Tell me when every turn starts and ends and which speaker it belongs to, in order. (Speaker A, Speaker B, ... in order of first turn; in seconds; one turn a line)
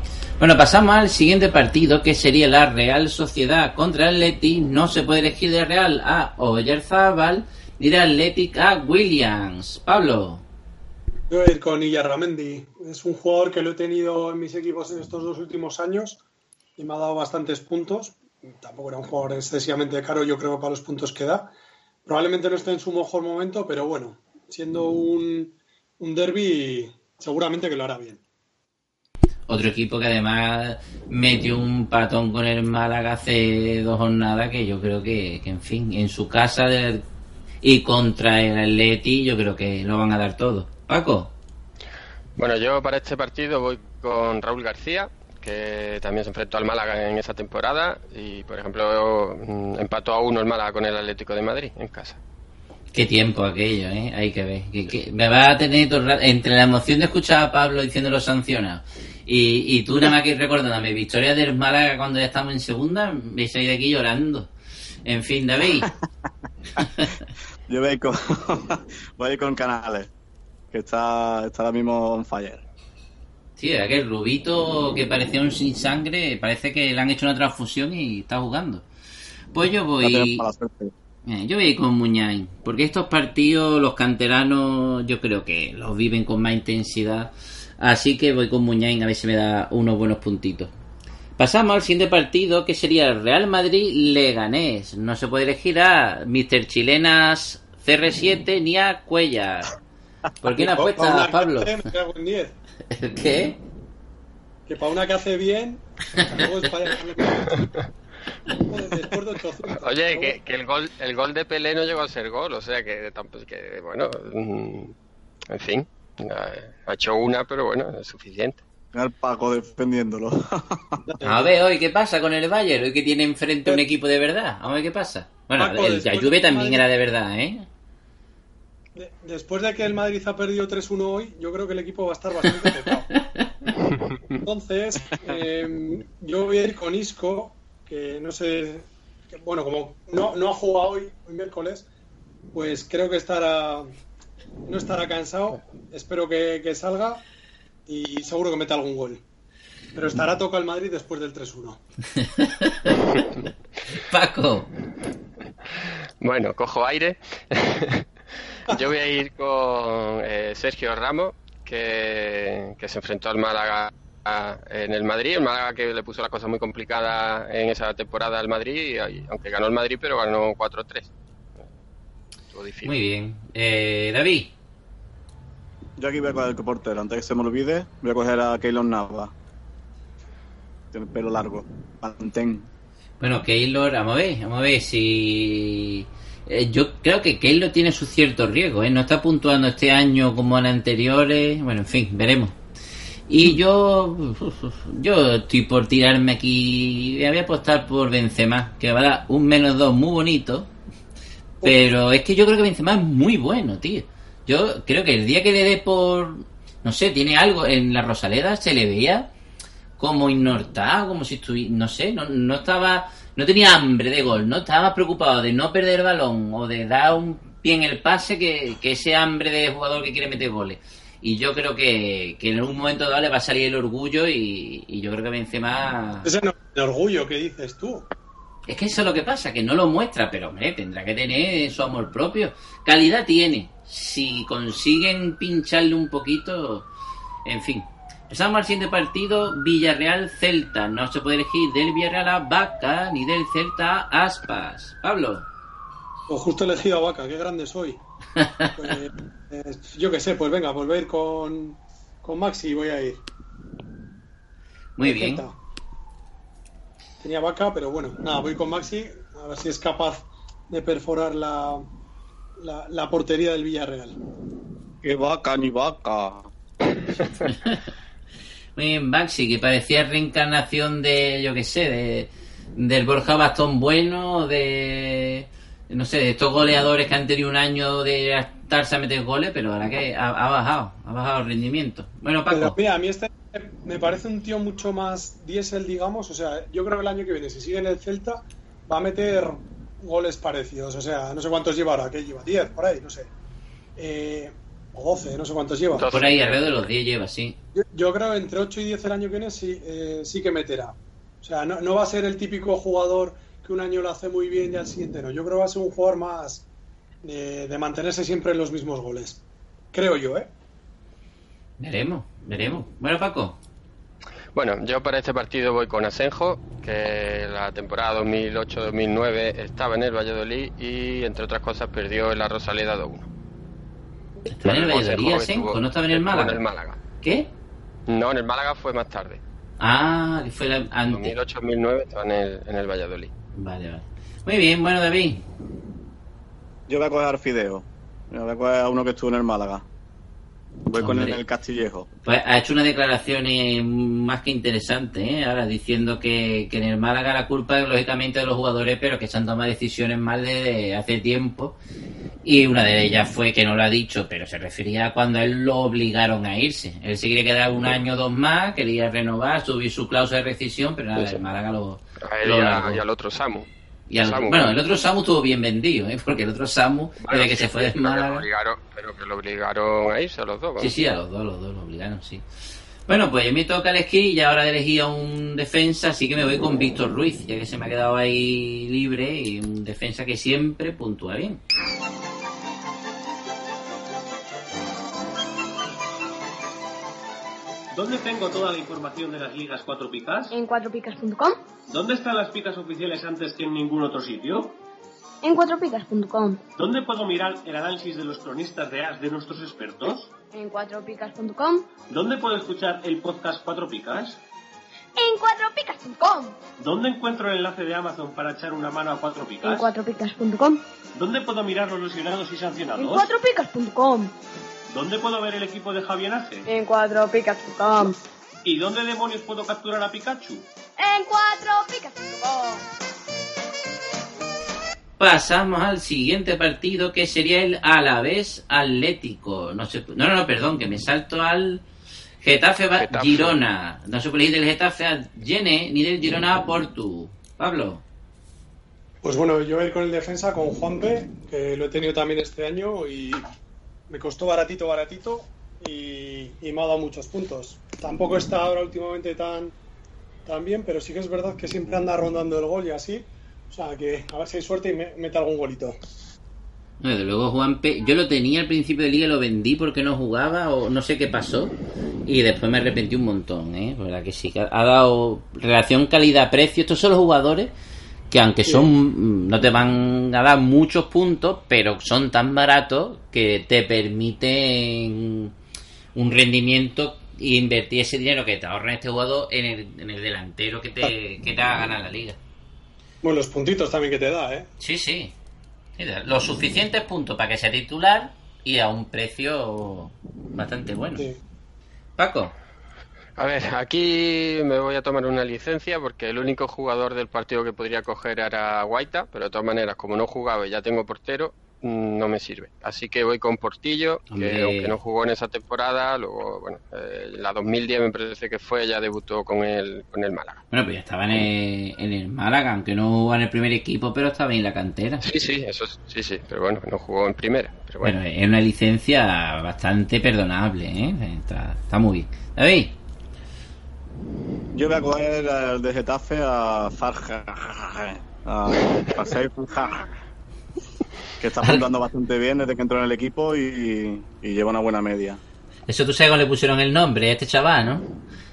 Speaker A: 0.4-10.4
Speaker B: 11.3-16.2
Speaker B: 16.8-21.5
Speaker B: 22.1-28.2
Speaker A: 29.5-37.0
Speaker A: 37.6-41.3
Speaker C: 42.4-52.2
Speaker A: 52.9-64.5
Speaker A: 65.1-65.9
Speaker D: 67.7-70.1
Speaker D: 70.7-72.6
Speaker A: 73.6-78.8
Speaker A: 79.5-80.5
Speaker D: 80.0-80.9
Speaker A: 81.3-90.7
Speaker A: 91.4-99.7
Speaker A: 100.4-101.8
Speaker B: 100.5-102.6
Speaker A: 102.9-103.6
Speaker B: 104.7-107.8
Speaker B: 108.5-110.4
Speaker C: 109.8-114.9
Speaker C: 115.5-118.6
Speaker D: 118.9-121.0
Speaker B: 121.2-121.5
Speaker A: 121.2-127.7
Speaker B: 125.6-126.8
Speaker B: 128.9-133.2
Speaker B: 134.4-141.9
Speaker B: 142.5-143.9
Speaker B: 144.7-147.2
Speaker B: 147.9-149.2
Speaker B: 149.9-151.8
Speaker A: 152.2-152.9
Speaker A: 153.9-154.7
Speaker C: 156.2-158.1
Speaker C: 158.7-171.1
Speaker C: 172.5-172.9
Speaker A: 172.8-174.5
Speaker D: 176.0-179.3
Speaker D: 180.9-182.7
Speaker A: 183.2-192.6
Speaker A: 193.3-200.7
Speaker A: 201.6-209.3
Speaker A: 210.0-226.3
Speaker B: 226.2-228.1
Speaker A: 228.7-236.9
Speaker A: 237.4-245.5
Speaker B: 246.3-248.0
Speaker B: 248.7-253.2
Speaker A: 255.0-255.4
Speaker B: 255.0-255.6
Speaker B: 257.2-261.9
Speaker B: 262.6-264.2
Speaker D: 265.0-266.5
Speaker A: 267.4-267.8
Speaker A: 268.8-282.8
Speaker B: 282.5-293.3
Speaker B: 294.0-296.1
Speaker C: 295.9-296.9
Speaker A: 296.1-297.6
Speaker B: 297.8-306.6
Speaker B: 307.2-309.4
Speaker B: 309.9-310.5
Speaker A: 311.8-313.6
Speaker C: 314.5-323.3
Speaker A: 324.5-326.6
Speaker C: 324.6-327.0
Speaker A: 327.2-327.5
Speaker C: 328.1-329.4
Speaker A: 329.8-331.4
Speaker C: 331.1-333.3
Speaker A: 333.6-335.4
Speaker D: 336.9-339.9
Speaker D: 340.9-342.1
Speaker A: 341.0-341.4
Speaker A: 342.2-351.8
Speaker A: 352.4-363.0
Speaker C: 362.2-364.8
Speaker A: 364.1-368.4
Speaker C: 367.2-370.9
Speaker A: 370.8-372.4
Speaker A: 373.1-381.6
Speaker E: 387.9-390.5
Speaker F: 390.5-391.6
Speaker E: 391.9-394.8
Speaker F: 395.4-396.6
Speaker E: 396.8-400.3
Speaker F: 400.5-401.9
Speaker E: 402.1-404.4
Speaker F: 405.2-406.6
Speaker E: 406.8-409.9
Speaker F: 409.6-410.8
Speaker E: 411.1-413.3
Speaker F: 413.0-414.3
Speaker E: 414.9-416.7
Speaker F: 416.7-418.2
Speaker E: 418.6-420.7
Speaker F: 421.0-422.8
Speaker A: 425.2-431.8
Speaker A: 432.4-438.0
Speaker C: 433.0-433.6
Speaker B: 439.2-443.4
Speaker B: 444.1-449.8
Speaker B: 450.4-456.0
Speaker A: 457.0-461.7
Speaker A: 462.3-467.7
Speaker A: 468.3-475.5
Speaker A: 476.1-482.4
Speaker B: 483.2-484.7
Speaker A: 484.8-485.3
Speaker A: 486.0-491.2
Speaker A: 492.2-492.5
Speaker C: 493.4-510.6
Speaker A: 504.3-504.9
Speaker A: 510.7-515.2
Speaker C: 515.2-518.2
Speaker A: 518.0-522.9
Speaker D: 524.7-530.1
Speaker D: 531.4-535.4
Speaker A: 535.9-538.1